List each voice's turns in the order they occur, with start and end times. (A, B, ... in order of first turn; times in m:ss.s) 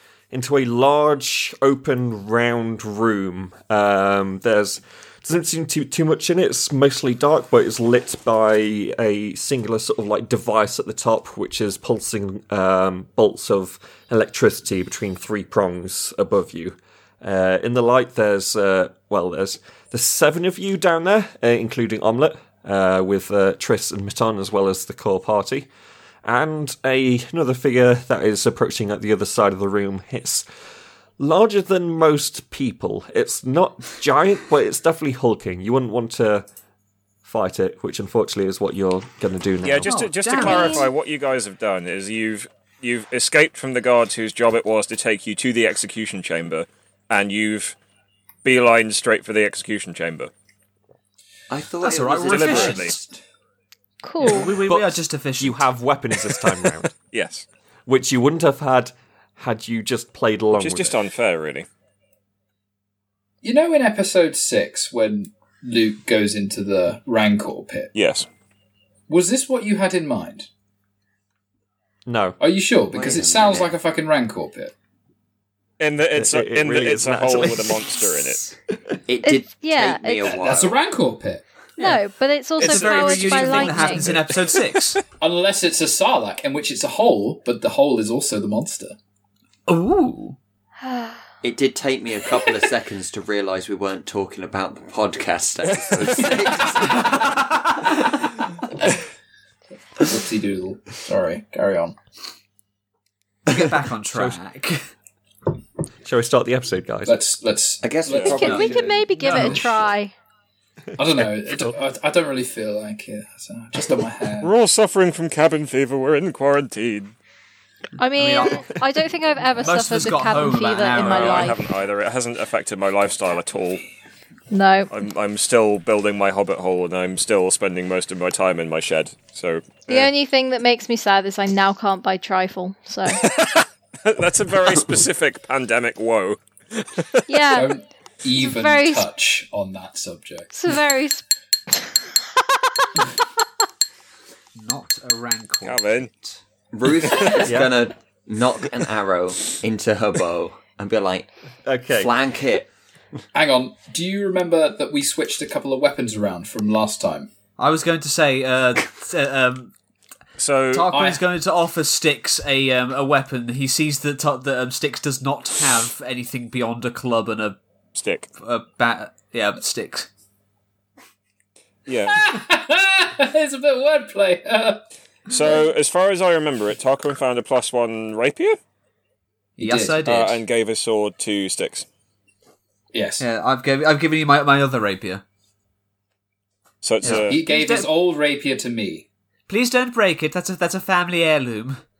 0:00.3-0:25.7 A
0:26.2-0:30.4 A
0:31.2-0:36.5 A
0:37.2-0:40.0 A
0:39.6-0:47.8 B
0:39.8-0:40.9 C
0:40.4-0:40.8 D
0:48.4-0:50.3 B
0:51.5-0:53.1 E
0:51.8-0:53.0 C
0:52.3-0:53.0 B
0:54.0-0:54.6 D
0:54.2-0:55.7 C
0:54.7-0:56.9 A
0:57.1-0:57.5 B
0:57.9-1:01.0 A
1:00.5-1:01.7 B
1:03.4-1:07.9 F
1:07.9-1:08.2 B
1:09.1-1:10.5 F
1:12.1-1:12.4 A
1:12.4-1:14.7 F
1:12.9-1:13.7 E
1:15.8-1:18.4 B
1:16.2-1:19.0 A
1:19.1-1:20.8 E
1:19.2-1:20.4 D
1:20.2-1:21.4 F
1:21.8-1:24.2 D
1:22.6-1:25.0 C
1:22.9-1:23.8 F
1:23.9-1:25.0 B
1:25.2-1:29.0 F
1:29.7-1:30.4 C
1:30.8-1:31.2 D
1:31.4-1:37.6 E
1:35.8-1:36.1 B
1:36.2-1:36.7 F
1:37.0-1:37.9 C
1:40.0-1:42.0 F
1:43.5-1:44.9 C
1:44.1-1:44.4 A
1:46.0-1:47.2 A
1:47.1-1:49.8 F
1:47.8-1:49.7 E
1:48.1-1:48.4 B
1:48.2-1:50.1 D
1:49.2-1:49.6 C
1:51.0-1:54.5 F
1:51.2-1:51.8 A
1:54.4-1:57.1 B
1:58.0-2:01.6 D
1:58.2-1:58.7 C
1:59.6-2:01.6 C
2:01.0-2:03.8 B
2:04.5-2:04.9 D
2:04.9-2:10.1 B
2:09.9-2:13.2 D
2:13.2-2:17.2 B
2:17.3-2:17.8 D
2:17.5-2:20.5 F
2:18.4-2:19.1 D
2:20.5-2:21.2 D
2:24.6-2:26.4 C
2:25.6-2:26.1 B
2:26.7-2:31.3 E
2:27.4-2:27.8 A
2:31.7-2:32.1 A
2:31.9-2:32.7 E
2:33.3-2:37.3 F
2:37.6-2:39.7 C
2:40.4-2:40.9 B
2:40.7-2:47.6 C
2:40.9-2:41.3 F
2:48.0-2:48.3 B
2:48.4-2:50.1 C
2:51.9-2:52.4 B
2:52.1-2:55.6 F
2:55.3-2:58.6 B
2:59.6-3:00.1 F
2:59.6-3:00.4 C
3:00.0-3:01.9 B
3:02.9-3:03.2 F
3:03.2-3:05.2 C
3:06.8-3:07.4 B
3:07.0-3:07.9 C
3:07.0-3:09.1 F
3:09.5-3:11.8 C